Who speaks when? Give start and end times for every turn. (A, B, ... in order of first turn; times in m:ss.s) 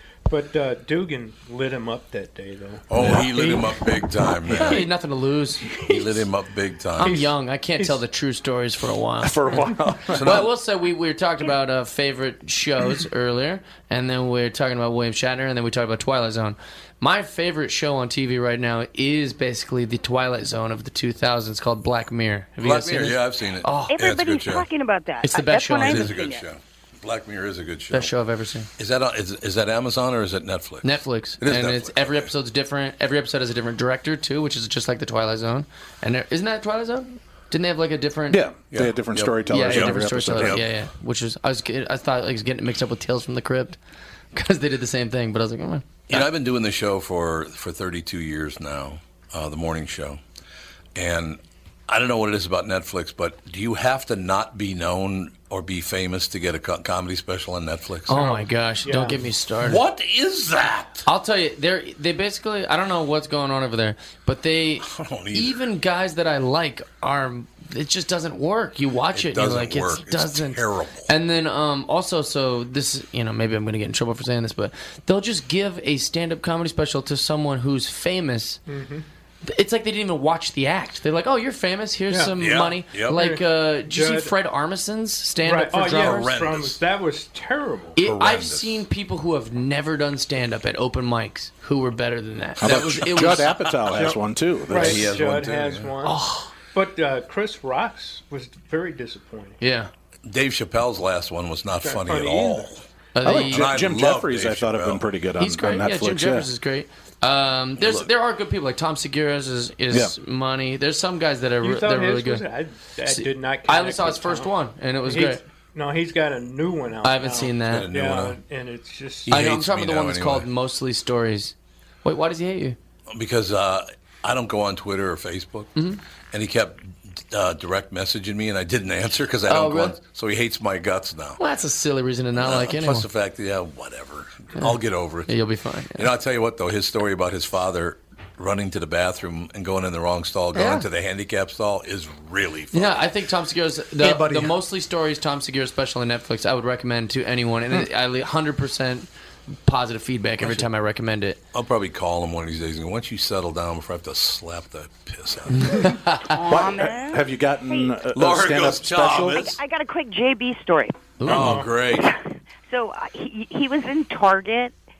0:00.3-0:04.1 A
0:02.9-0:04.9 B
0:04.5-0:05.7 C
0:05.8-0:07.2 B
0:07.0-0:24.0 C
0:07.0-0:08.0 A
0:09.2-0:10.4 D
0:10.1-0:10.5 B
0:22.6-0:24.7 B
0:23.9-0:26.4 E
0:25.2-0:26.2 C
0:25.8-0:28.1 B
0:27.9-0:28.7 C
0:28.8-0:32.3 B
0:30.8-0:38.4 C
0:38.3-0:40.6 D
0:38.7-0:40.6 B
0:39.5-0:43.8 C
0:44.3-0:46.3 C
0:46.1-0:50.2 B
0:51.0-0:58.2 B
0:58.1-0:59.8 C
0:58.1-0:59.2 A
0:59.6-1:01.0 B
1:01.1-1:18.6 C
1:04.8-1:05.6 B
1:09.1-1:11.1 B
1:18.7-1:19.0 A
1:19.4-1:26.3 C
1:22.1-1:22.4 A
1:22.4-1:23.2 B
1:23.1-1:24.3 A
1:25.4-1:28.0 A
1:25.8-1:26.8 B
1:28.0-1:33.6 C
1:28.0-1:28.9 B
1:32.6-1:35.1 D
1:32.6-1:34.0 B
1:33.9-1:36.2 A
1:34.7-1:36.0 B
1:36.0-1:36.5 C
1:36.7-1:39.6 A
1:39.6-1:39.9 C
1:40.3-1:42.8 B
1:41.8-1:42.7 A
1:43.2-1:43.7 C
1:43.2-1:46.5 D
1:43.4-1:45.0 B
1:45.4-1:52.4 C
1:47.8-1:48.1 B
1:51.6-1:54.5 A
1:53.1-1:55.4 C
1:55.1-1:59.4 A
1:57.0-1:57.9 C
1:57.7-1:58.4 B
1:59.3-2:00.5 B
1:59.3-2:02.8 C
2:03.1-2:05.7 B
2:05.8-2:06.0 C
2:06.3-2:11.4 B
2:09.5-2:10.0 C
2:11.4-2:13.1 C
2:12.4-2:15.3 B
2:15.3-2:16.1 C
2:16.0-2:23.0 B
2:20.6-2:20.8 C
2:22.7-2:29.1 C
2:29.6-2:31.4 C
2:31.5-2:36.0 B
2:35.5-2:36.3 C
2:36.3-2:38.0 E
2:36.3-2:39.5 D
2:38.1-2:39.6 B
2:39.4-2:41.1 E
2:41.2-2:41.6 C
2:41.2-2:41.8 A
2:41.3-2:42.1 B
2:42.0-2:44.7 E